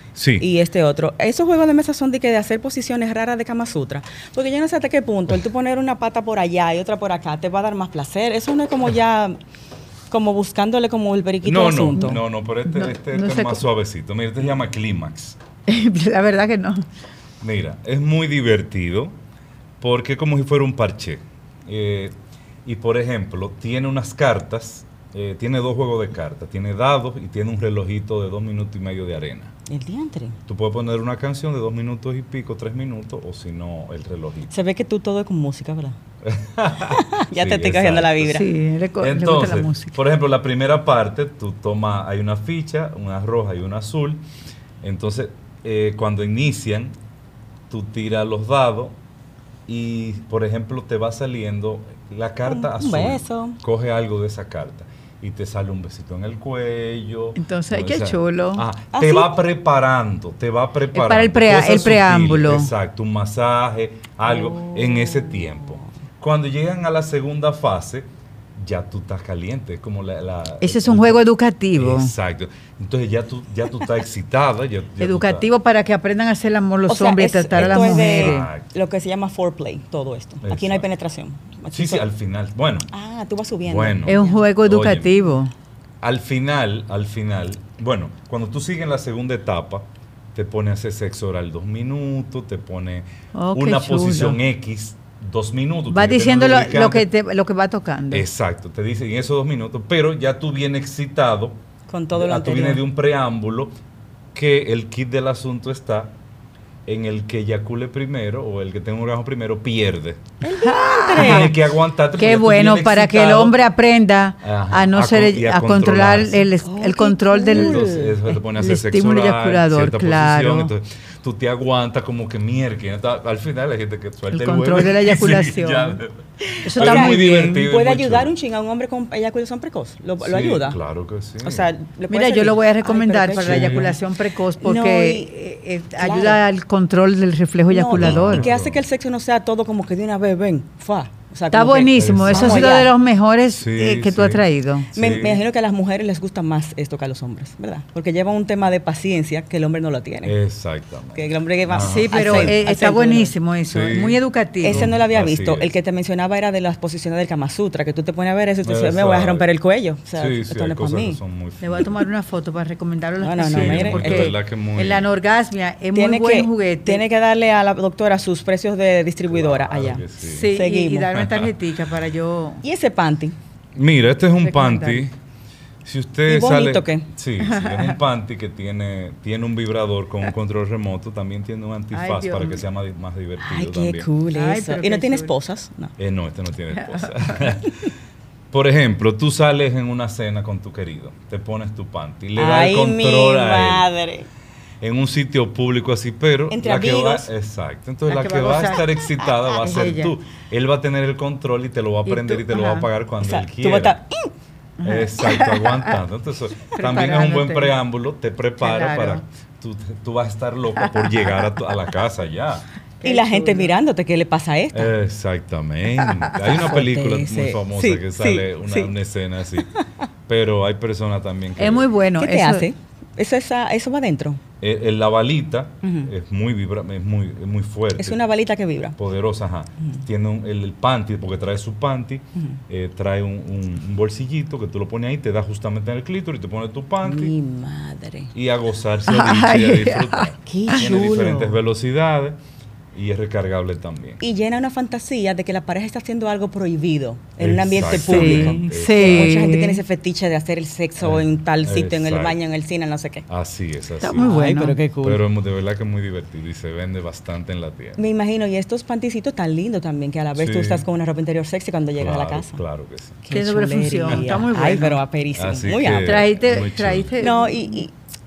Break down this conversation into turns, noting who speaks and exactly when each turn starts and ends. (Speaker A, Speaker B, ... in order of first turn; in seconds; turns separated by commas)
Speaker A: 0.1-0.5, Speaker B: 0.4-9.4, Speaker B: 10.1-12.2, Speaker A: 11.4-15.4, Speaker C: 12.0-13.6, Speaker C: 15.7-16.8, Speaker A: 17.4-19.1, Speaker A: 19.8-29.5, Speaker B: 29.7-30.4, Speaker A: 30.5-34.5, Speaker B: 34.5-36.0, Speaker A: 36.2-38.4, Speaker B: 36.8-38.5, Speaker C: 38.3-40.0, Speaker A: 39.0-44.2, Speaker A: 44.8-46.9, Speaker A: 47.7-48.9, Speaker A: 49.7-71.2, Speaker B: 52.5-53.6, Speaker C: 57.4-58.6, Speaker B: 58.9-59.3, Speaker C: 60.9-62.7, Speaker B: 64.2-65.9, Speaker C: 70.6-72.1, Speaker A: 71.7-75.5, Speaker C: 75.0-78.5, Speaker B: 76.9-82.0, Speaker A: 77.5-78.7, Speaker A: 80.4-80.8, Speaker A: 81.7-82.9, Speaker B: 82.9-84.4, Speaker A: 83.6-85.1, Speaker C: 84.0-85.5, Speaker A: 86.0-97.1, Speaker C: 93.3-94.4, Speaker C: 95.9-98.3, Speaker A: 98.1-101.6, Speaker B: 101.9-102.8, Speaker A: 102.1-103.7, Speaker A: 104.3-106.1, Speaker A: 106.8-110.2, Speaker B: 110.4-111.5, Speaker C: 110.6-111.6, Speaker A: 111.2-113.6, Speaker C: 112.1-120.7, Speaker A: 114.4-116.5, Speaker B: 116.6-118.2, Speaker A: 117.5-128.3, Speaker C: 124.3-126.0, Speaker C: 126.6-127.7, Speaker B: 126.7-130.8, Speaker A: 130.2-131.7, Speaker B: 131.4-134.0, Speaker C: 132.1-138.5, Speaker A: 133.4-133.9, Speaker B: 134.6-135.3, Speaker B: 136.0-136.4, Speaker B: 137.7-142.9, Speaker A: 137.9-138.8, Speaker C: 141.5-144.9, Speaker A: 141.9-142.8, Speaker A: 143.5-145.4, Speaker B: 144.9-150.3, Speaker A: 150.2-152.6, Speaker B: 151.1-153.3, Speaker C: 151.8-154.8, Speaker A: 153.7-155.7, Speaker B: 154.6-161.2, Speaker A: 158.6-159.5, Speaker A: 160.2-162.0, Speaker C: 161.6-167.0, Speaker B: 163.2-164.3, Speaker A: 163.5-165.1, Speaker B: 165.9-171.1, Speaker A: 169.3-170.5, Speaker C: 170.2-172.6, Speaker A: 171.1-171.5, Speaker B: 172.6-173.3, Speaker A: 173.7-175.1, Speaker C: 174.4-175.1, Speaker A: 175.8-184.1, Speaker B: 176.3-177.1, Speaker C: 177.4-177.9, Speaker C: 181.9-182.6, Speaker B: 183.4-185.9, Speaker C: 184.3-185.3, Speaker A: 186.0-187.9, Speaker C: 186.7-187.5, Speaker A: 188.5-193.9, Speaker B: 192.3-194.3, Speaker A: 194.8-204.0, Speaker B: 196.5-197.3, Speaker C: 198.1-200.1, Speaker C: 202.1-202.9, Speaker B: 203.2-204.3, Speaker C: 204.8-206.0, Speaker A: 204.8-212.7, Speaker C: 206.7-207.7, Speaker C: 208.6-209.2, Speaker C: 210.8-211.5, Speaker C: 213.0-213.7, Speaker B: 213.0-214.9, Speaker A: 214.7-219.7, Speaker B: 216.5-218.9, Speaker A: 220.3-221.9, Speaker C: 221.6-222.7, Speaker B: 222.2-224.4, Speaker A: 224.6-228.2, Speaker B: 225.8-226.1, Speaker B: 228.0-229.0, Speaker A: 228.9-237.3, Speaker B: 237.0-238.3, Speaker A: 238.3-242.4, Speaker C: 239.1-240.3, Speaker B: 240.4-241.6, Speaker A: 242.9-244.2, Speaker B: 244.2-253.2, Speaker A: 247.4-249.5, Speaker C: 247.8-249.8, Speaker A: 251.0-252.4, Speaker A: 253.3-254.3, Speaker C: 254.0-254.8, Speaker B: 254.1-255.2, Speaker A: 255.0-258.0, Speaker B: 258.0-262.6, Speaker A: 260.3-260.8, Speaker A: 262.0-263.2, Speaker B: 263.2-266.3, Speaker C: 263.3-265.0, Speaker A: 264.1-264.4, Speaker A: 265.3-267.1, Speaker C: 266.0-267.8, Speaker B: 267.2-267.9